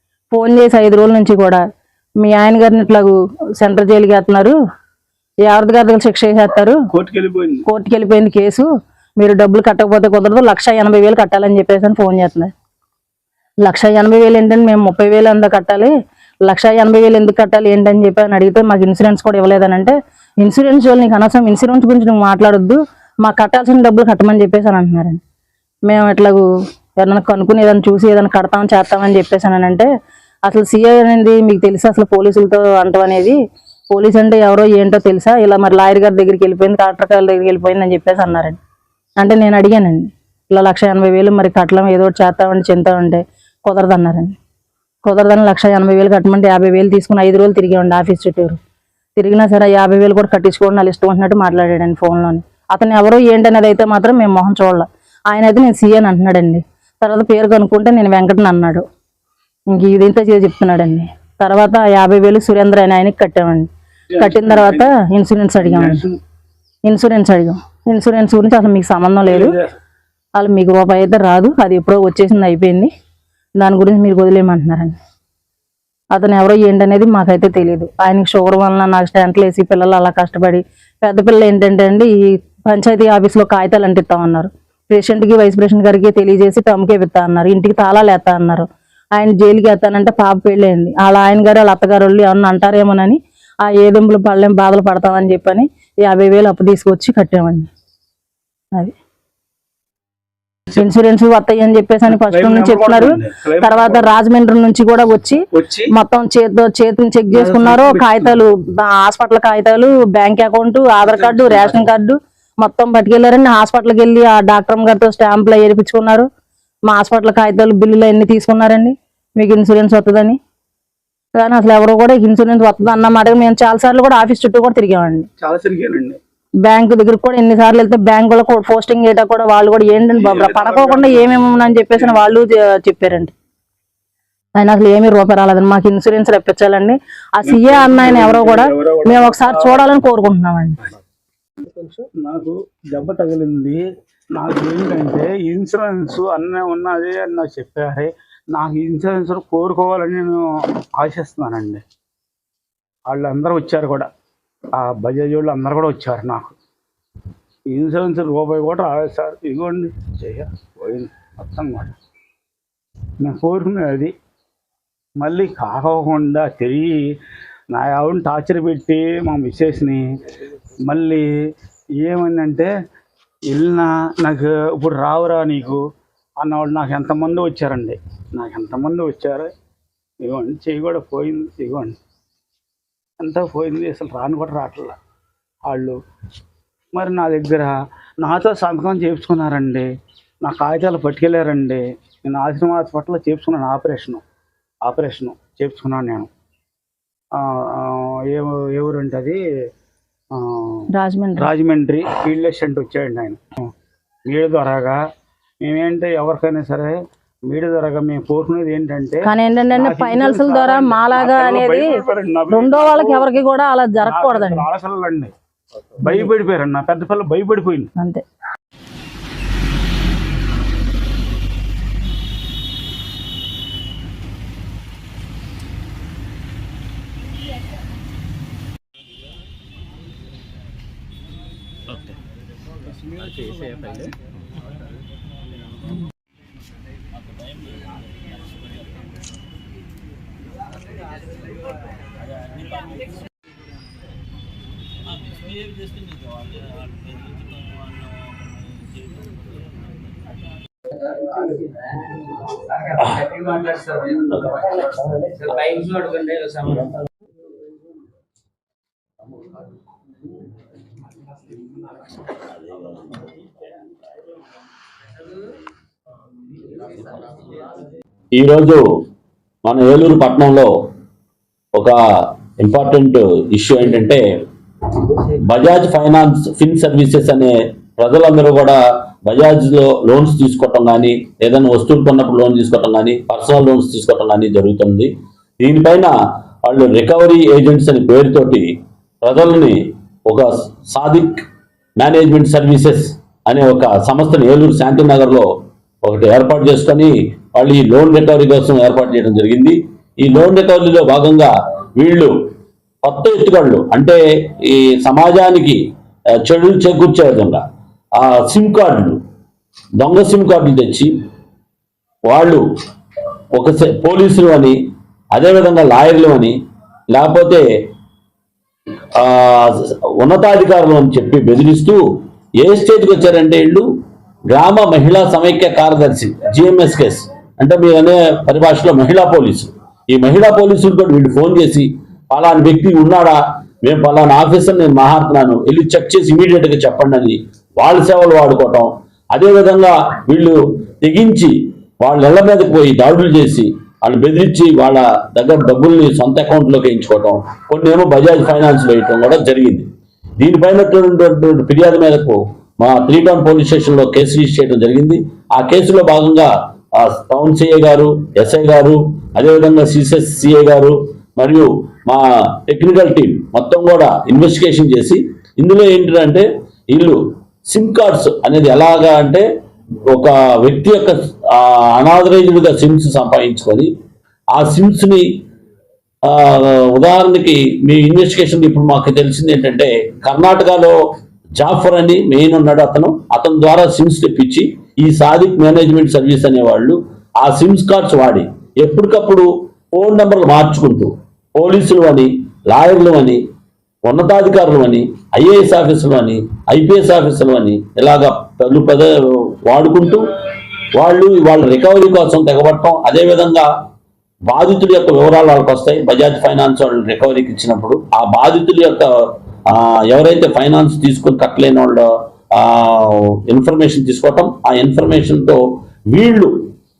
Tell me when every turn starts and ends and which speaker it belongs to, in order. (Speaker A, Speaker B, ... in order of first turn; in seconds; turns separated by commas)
Speaker A: 0.3-1.6, Speaker A: 2.2-4.6, Speaker A: 5.5-6.8, Speaker B: 6.9-7.6, Speaker A: 7.7-12.5, Speaker A: 13.6-15.9, Speaker A: 16.4-25.2, Speaker A: 25.9-26.4, Speaker A: 27.0-29.9, Speaker A: 30.5-33.4, Speaker A: 33.9-38.6, Speaker A: 39.2-44.4, Speaker A: 45.0-48.6, Speaker A: 49.2-58.8, Speaker A: 59.7-66.0, Speaker B: 64.1-64.9, Speaker B: 65.6-66.2, Speaker A: 66.9-69.6, Speaker B: 69.3-69.7, Speaker A: 70.4-72.9, Speaker A: 73.6-75.0, Speaker A: 76.1-97.7, Speaker A: 100.7-116.3, Speaker B: 102.1-104.1, Speaker B: 105.5-105.9, Speaker B: 107.3-108.4, Speaker B: 111.1-111.9, Speaker A: 116.9-120.4, Speaker A: 121.4-125.3, Speaker B: 125.4-126.2, Speaker A: 126.7-133.3, Speaker B: 130.2-131.3, Speaker A: 134.6-140.8, Speaker B: 137.4-139.9, Speaker B: 141.7-151.8, Speaker B: 153.1-154.1, Speaker B: 154.7-156.6, Speaker B: 157.7-161.9, Speaker B: 163.2-164.1, Speaker B: 165.2-167.1, Speaker B: 167.7-170.2, Speaker B: 170.8-171.3, Speaker B: 172.0-172.7, Speaker B: 173.5-175.8, Speaker B: 176.4-179.5, Speaker B: 180.2-182.0, Speaker B: 183.2-185.0, Speaker B: 185.7-186.0, Speaker B: 186.9-189.9, Speaker B: 190.4-194.2, Speaker B: 194.8-196.3, Speaker B: 197.3-199.4, Speaker B: 200.3-203.7, Speaker A: 200.9-201.5, Speaker B: 204.3-205.0, Speaker B: 205.6-207.0, Speaker B: 207.5-213.3, Speaker A: 209.2-214.7, Speaker B: 214.0-215.3, Speaker B: 216.0-217.9, Speaker A: 218.0-218.2, Speaker C: 233.5-234.0, Speaker D: 237.2-238.7, Speaker D: 242.3-242.9, Speaker D: 245.2-249.8, Speaker C: 251.0-257.0, Speaker D: 254.3-254.6, Speaker D: 262.4-263.4, Speaker C: 266.7-267.7, Speaker D: 268.4-268.8, Speaker D: 269.6-270.7, Speaker D: 271.8-274.4, Speaker D: 275.1-286.1, Speaker D: 286.6-291.4, Speaker D: 292.0-295.5, Speaker D: 296.0-302.3, Speaker D: 303.0-305.8, Speaker D: 306.4-307.6, Speaker D: 308.2-309.2, Speaker D: 310.0-311.1, Speaker D: 312.3-312.6, Speaker D: 313.5-314.8, Speaker D: 315.3-316.6, Speaker D: 317.1-317.6, Speaker D: 319.1-322.0, Speaker D: 322.6-323.9, Speaker D: 324.5-349.9, Speaker D: 350.4-369.4, Speaker D: 370.1-373.9, Speaker D: 374.5-375.3, Speaker D: 376.2-381.0, Speaker D: 381.6-393.4, Speaker D: 394.1-400.4, Speaker D: 401.0-403.7, Speaker D: 404.5-416.7